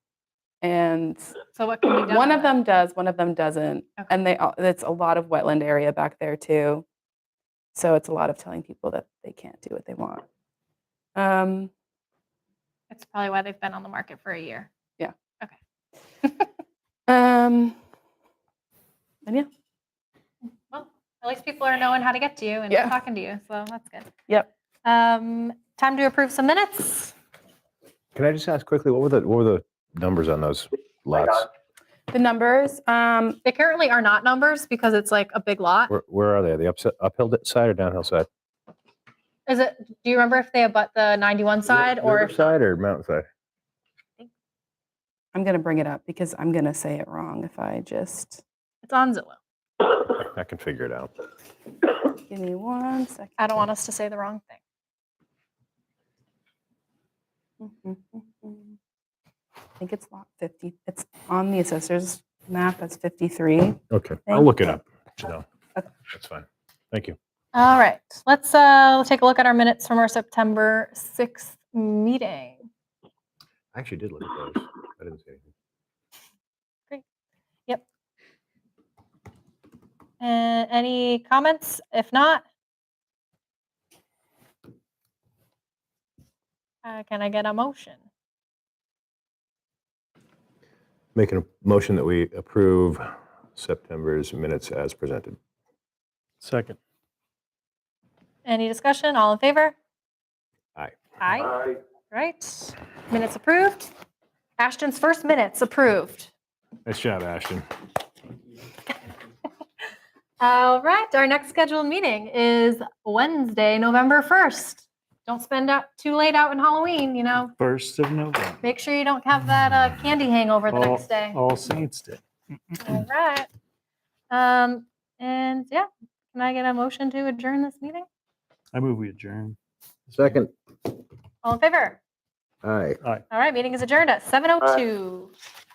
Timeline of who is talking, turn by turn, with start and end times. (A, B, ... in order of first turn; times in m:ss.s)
0:00.6-0:01.4 A
0:01.5-0:02.5 B
0:02.1-0:06.8 A
0:07.7-0:10.2 A
0:11.2-0:11.7 A
0:12.9-0:14.7 B
0:17.1-0:17.7 A
0:20.7-0:24.1 B
0:22.7-0:22.9 A
0:24.8-0:27.1 B
0:28.1-0:31.5 C
0:32.1-0:33.4 A
0:33.4-0:35.9 B
0:35.9-0:38.3 C
0:39.5-0:42.4 B
0:41.7-0:43.3 C
0:45.3-0:48.4 A
0:48.8-0:49.4 B
0:50.0-0:51.1 C
0:52.1-0:53.6 A
0:53.4-0:54.6 B
0:57.6-0:58.8 A
0:59.8-1:04.8 A
1:03.9-1:05.4 C
1:06.1-1:07.2 C
1:07.5-1:12.6 B
1:13.7-1:15.5 C
1:20.2-1:22.4 B
1:26.8-1:28.0 B
1:31.1-1:33.0 C
1:33.5-1:35.4 C
1:36.4-1:36.8 D
1:38.4-1:39.7 B
1:41.2-1:43.9 B
1:44.6-1:46.3 B
1:46.8-1:47.6 C
1:50.4-1:57.5 B
1:57.6-1:58.6 D
1:58.6-2:01.4 B
2:00.7-2:02.2 D
2:02.8-2:03.5 B
2:04.3-2:08.0 B
2:08.7-2:09.6 D
2:10.1-2:10.4 D
2:10.1-2:10.5 C
2:11.4-2:12.0 B
2:12.6-2:13.0 C
2:13.3-2:15.3 B